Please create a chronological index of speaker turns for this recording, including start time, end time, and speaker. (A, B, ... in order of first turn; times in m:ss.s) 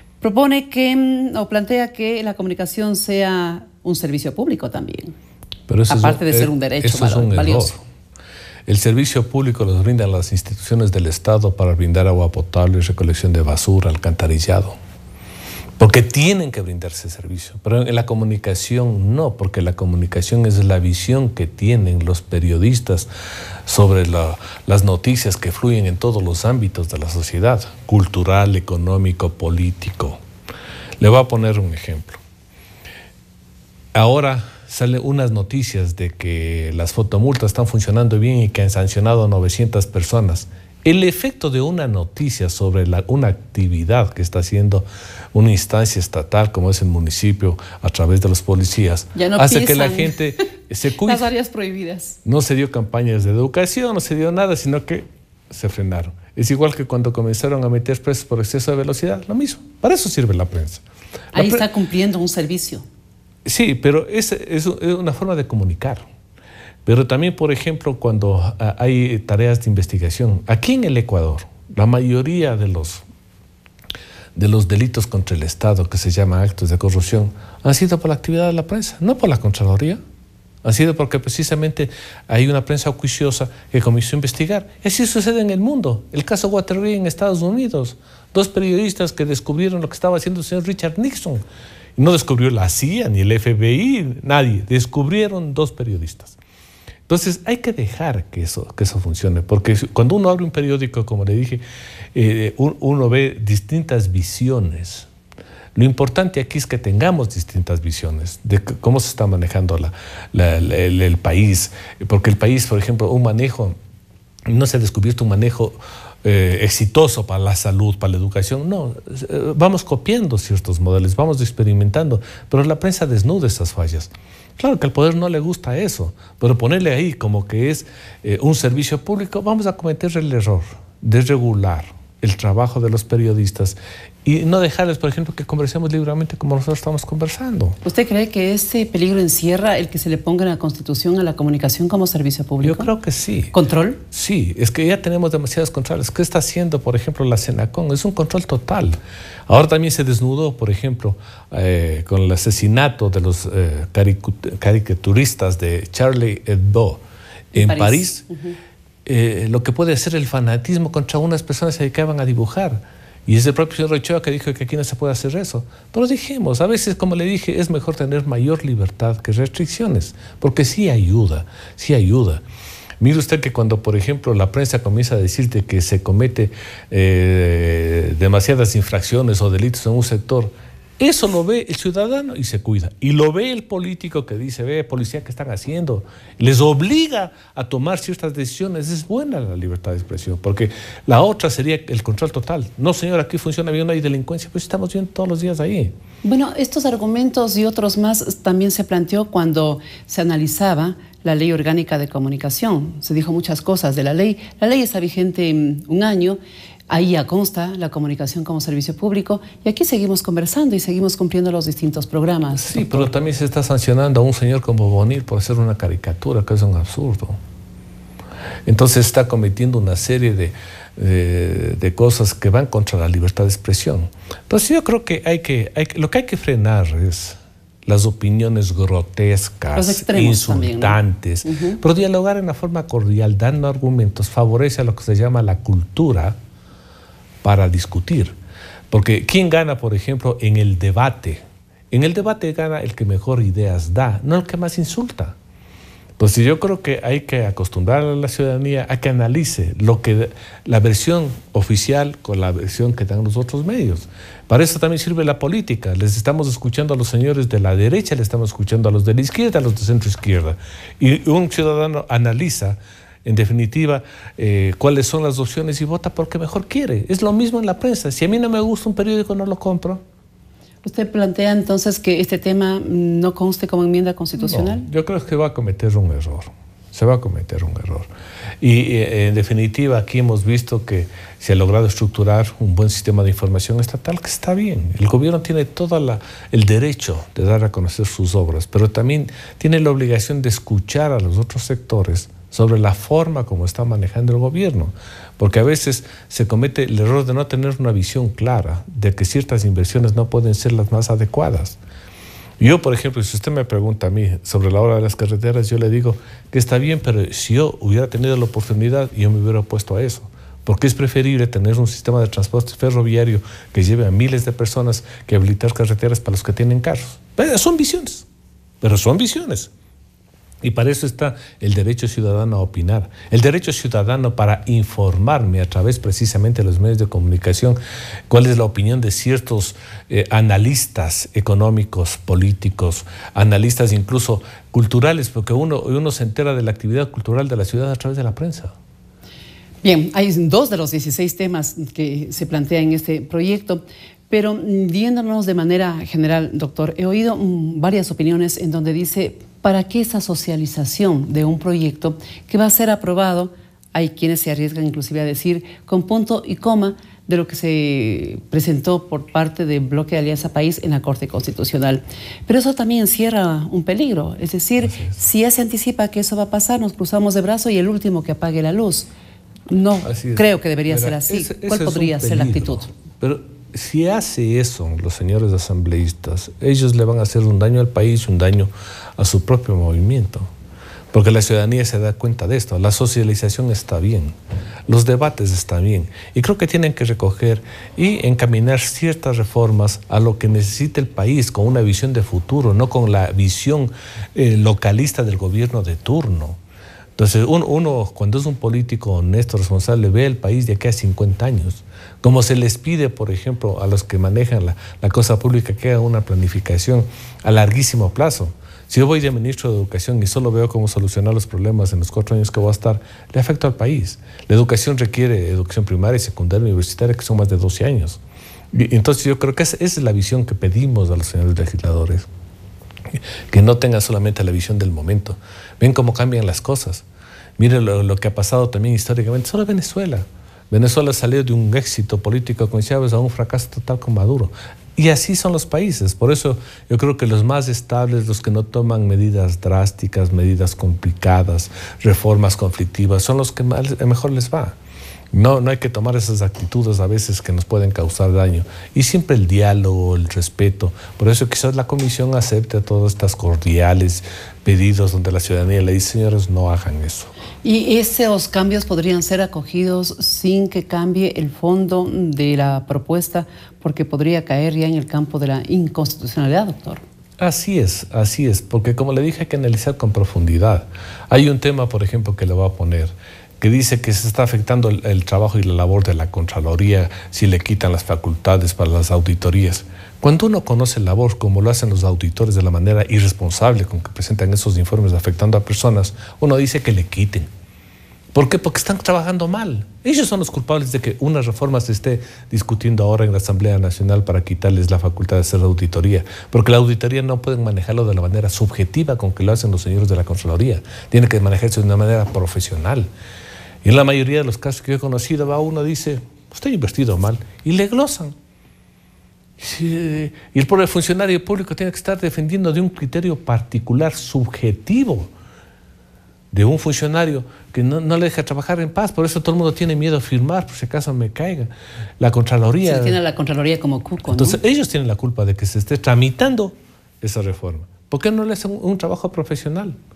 0:00.2-0:05.2 A
0:05.7-0:07.8 B
0:05.9-0:07.8 A
0:08.7-0:14.8 B
0:15.8-0:23.1 B
0:23.7-0:30.2 B
0:31.0-0:32.2 B
0:34.0-0:51.2 B
0:49.2-0:50.3 A
0:51.0-0:52.2 A
0:52.2-1:00.8 B
1:01.3-1:02.8 A
1:01.4-1:01.6 B
1:03.4-1:06.0 B
1:06.8-1:13.0 B
1:14.4-1:20.0 B
1:20.6-1:31.4 B
1:32.0-1:36.4 B
1:37.1-1:41.6 B
1:42.1-1:45.1 B
1:45.8-1:53.8 B
1:54.5-2:17.8 B
2:17.8-2:22.9 A
2:22.6-2:23.5 B
2:23.5-2:24.0 A
2:24.1-2:29.0 B
2:29.5-2:37.0 B
2:37.5-2:38.2 B
2:37.5-2:38.6 A
2:39.1-2:52.4 B
2:53.0-3:15.9 B
3:16.2-3:26.4 A
3:26.9-3:33.1 A
3:32.6-3:37.4 B
3:38.7-3:56.4 B
3:49.7-3:51.8 A
3:57.4-3:58.3 B
3:58.9-4:05.4 B
4:06.2-4:30.0 B
4:30.8-4:34.9 A
4:34.4-4:38.1 B
4:38.6-5:01.8 B
5:02.6-5:18.3 B
5:18.8-5:19.7 B
5:20.6-5:27.8 B
5:28.3-5:38.7 B
5:39.8-6:09.1 A
6:04.8-6:05.2 B
6:09.7-6:12.9 A
6:10.0-6:20.5 B
6:21.1-6:24.4 B
6:24.9-6:36.6 B
6:37.2-6:58.2 B
6:58.7-7:02.3 B
7:03.2-7:07.1 B
7:07.6-7:24.7 B
7:25.3-7:37.3 B
7:37.6-7:47.0 A
7:47.4-8:07.5 B
8:08.3-8:23.1 B
8:23.8-8:28.4 B
8:29.6-8:35.3 B
8:36.5-8:43.2 B
8:42.8-8:44.6 A
8:44.3-8:50.0 B